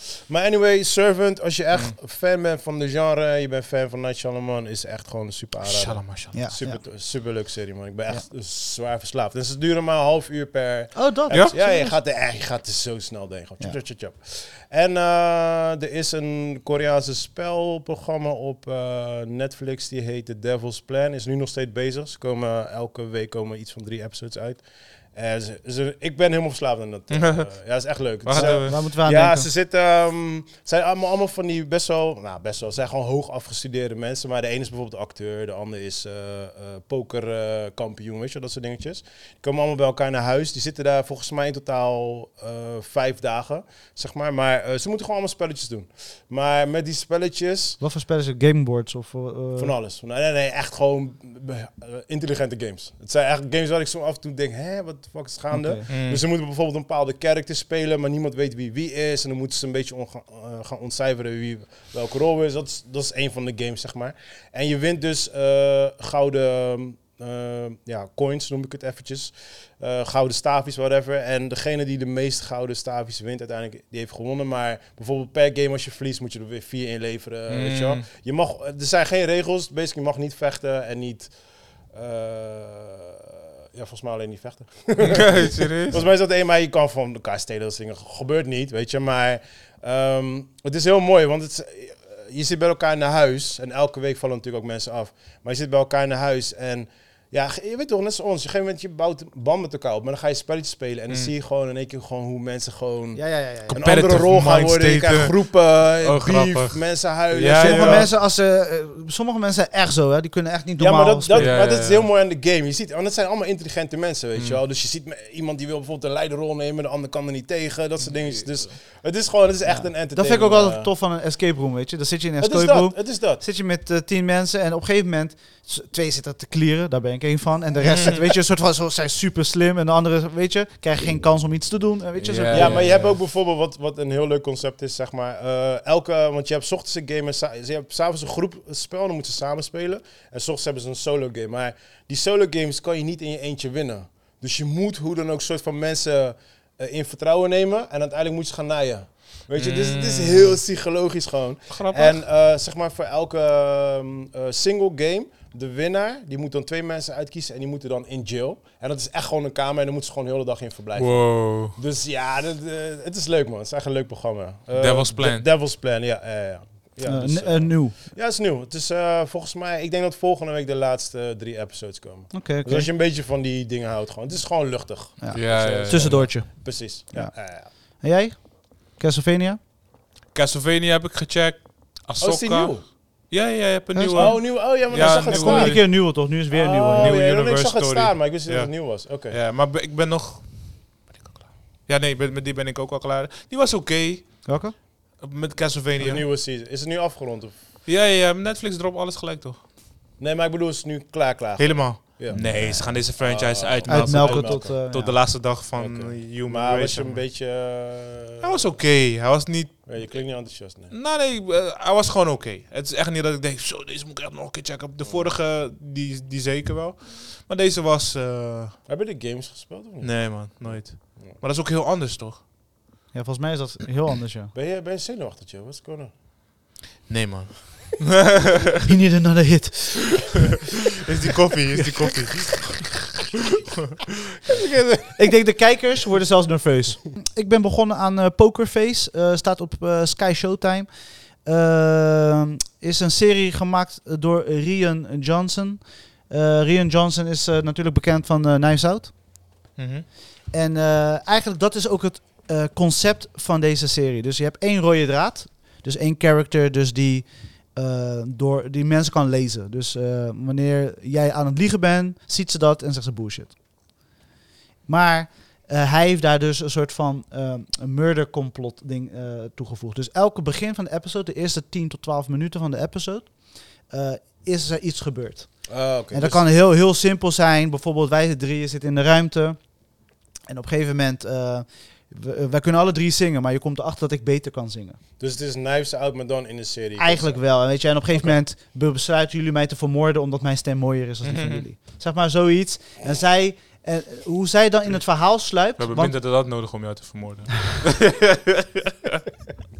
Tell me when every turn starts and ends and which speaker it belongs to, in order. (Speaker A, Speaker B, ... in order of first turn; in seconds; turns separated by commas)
Speaker A: 0.3-47.8, Speaker B: 5.6-6.4, Speaker C: 6.3-6.8, Speaker C: 10.9-12.0, Speaker B: 27.1-28.8, Speaker C: 28.3-29.5, Speaker C: 47.8-49.8, Speaker A: 49.6-108.1, Speaker C: 55.5-55.8, Speaker B: 55.9-56.2, Speaker B: 77.5-78.0, Speaker B: 85.0-86.0, Speaker C: 103.2-103.8, Speaker B: 103.7-108.1, Speaker C: 107.5-111.5, Speaker A: 110.8-120.9, Speaker B: 111.3-112.1, Speaker B: 114.3-114.6, Speaker C: 119.7-132.8, Speaker A: 122.4-123.4, Speaker B: 132.2-133.2, Speaker A: 132.5-177.7, Speaker B: 149.6-150.6, Speaker B: 151.7-152.2, Speaker B: 160.9-161.8, Speaker B: 164.8-165.5, Speaker C: 167.0-168.0, Speaker C: 172.3-172.9, Speaker C: 175.2-179.6, Speaker B: 175.3-176.3, Speaker B: 180.3-186.2, Speaker A: 182.2-182.9, Speaker C: 183.9-187.2, Speaker A: 184.2-189.4, Speaker B: 186.9-196.3, Speaker C: 194.4-194.8, Speaker A: 196.0-197.6, Speaker B: 197.9-199.6, Speaker A: 200.2-205.1, Speaker B: 201.6-207.3, Speaker C: 202.3-203.0, Speaker C: 203.9-205.2, Speaker A: 205.8-208.8, Speaker B: 208.4-210.3, Speaker A: 209.9-210.9, Speaker B: 210.9-218.8, Speaker A: 215.0-215.3, Speaker A: 218.9-221.4, Speaker B: 220.0-222.4, Speaker C: 223.1-224.5, Speaker A: 224.5-226.1, Speaker B: 227.1-228.8, Speaker C: 228.8-230.4, Speaker B: 231.0-232.9, Speaker C: 235.1-240.9, Speaker C: 241.4-249.1, Speaker B: 249.8-250.1, Speaker C: 250.5-263.6, Speaker C: 264.9-279.9, Speaker A: 275.7-276.5, Speaker C: 280.5-285.0, Speaker A: 285.2-287.4, Speaker C: 287.0-296.2, Speaker B: 291.2-291.6, Speaker B: 295.8-299.2